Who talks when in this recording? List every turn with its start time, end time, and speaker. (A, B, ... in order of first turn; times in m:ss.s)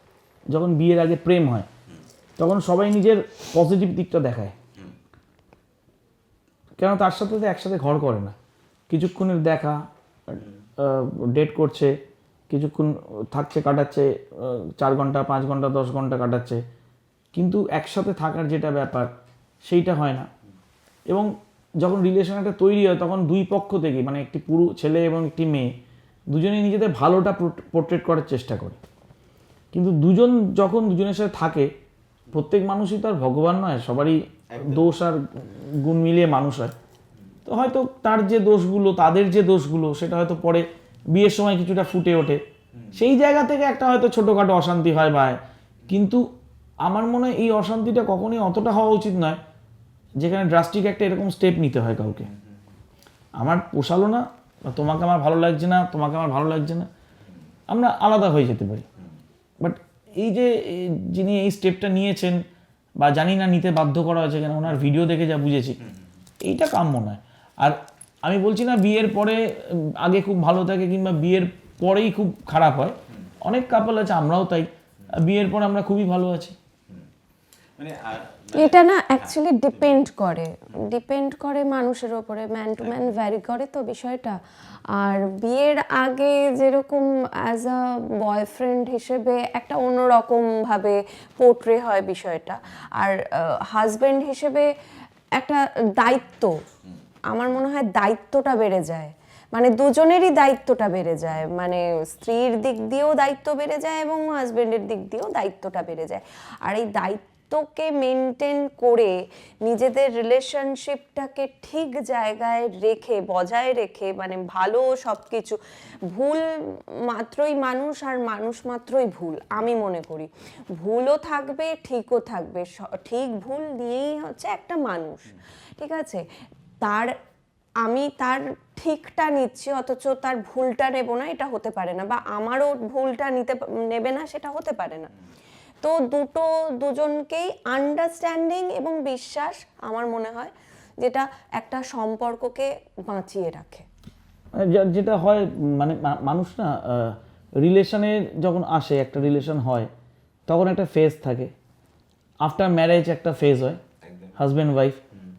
0:00.5-0:01.7 A
0:02.4-0:04.5 A
0:06.8-0:08.3 A
0:08.9-0:11.9 A
0:12.5-0:16.6 A
0:17.3-0:19.1 A
0:19.6-0:20.3 A
0:21.1-0:25.7 A
0:26.3-0:28.8 A
0:29.7-0:31.7 A
0:32.3-0:36.7 A
0:34.5-0:34.9 B
0:37.4-0:42.4 A
0:42.9-0:46.2 A
0:46.8-0:49.4 A
0:50.2-0:52.3 A
0:53.4-0:56.9 A
0:57.7-0:58.9 A
0:59.6-1:02.4 A
1:03.0-1:05.8 A
1:06.4-1:16.6 A
1:17.8-1:20.0 B
1:18.5-1:24.4 C
1:22.8-1:23.1 B
1:24.9-1:34.7 C
1:35.4-1:36.6 C
1:37.3-1:49.1 C
1:49.6-2:05.2 C
2:05.8-2:06.2 C
2:06.8-2:07.1 C
2:07.8-2:15.1 C
2:15.8-2:23.8 C
2:24.5-2:29.9 A
2:30.5-2:31.5 A
2:32.4-2:33.8 A
2:34.0-2:34.3 B
2:34.4-2:35.0 A